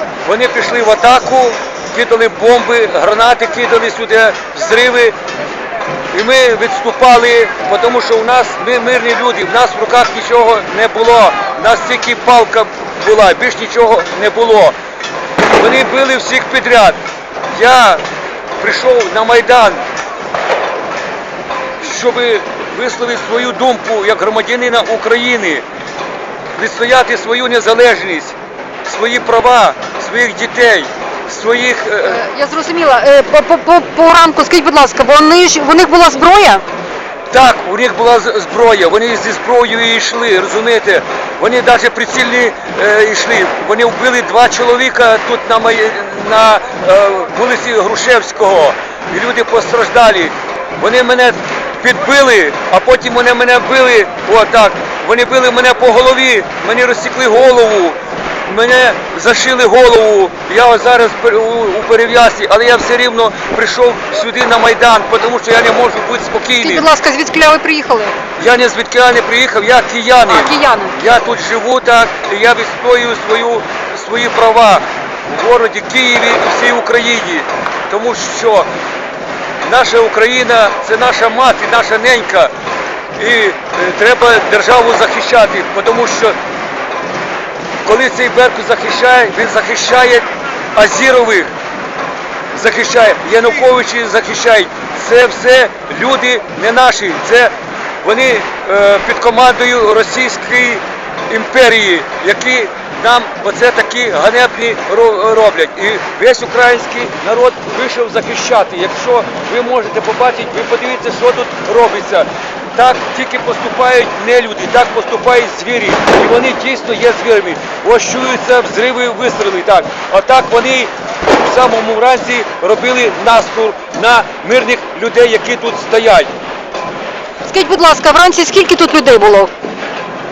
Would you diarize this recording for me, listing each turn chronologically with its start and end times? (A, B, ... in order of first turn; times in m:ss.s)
0:00.2-0:05.2 A
0:06.1-0:14.8 A
0:15.5-0:17.0 A
0:17.5-0:18.0 A
0:18.6-0:19.8 A
0:21.8-0:25.6 A
0:26.6-0:32.2 A
0:32.1-0:36.6 B
0:37.3-1:06.9 A
1:06.6-1:08.2 B
1:08.4-1:18.7 A
1:10.3-1:11.0 B
1:19.6-1:22.5 A
1:23.2-1:26.4 A
1:27.8-1:31.5 A
1:32.5-2:06.3 A
2:07.5-2:09.5 B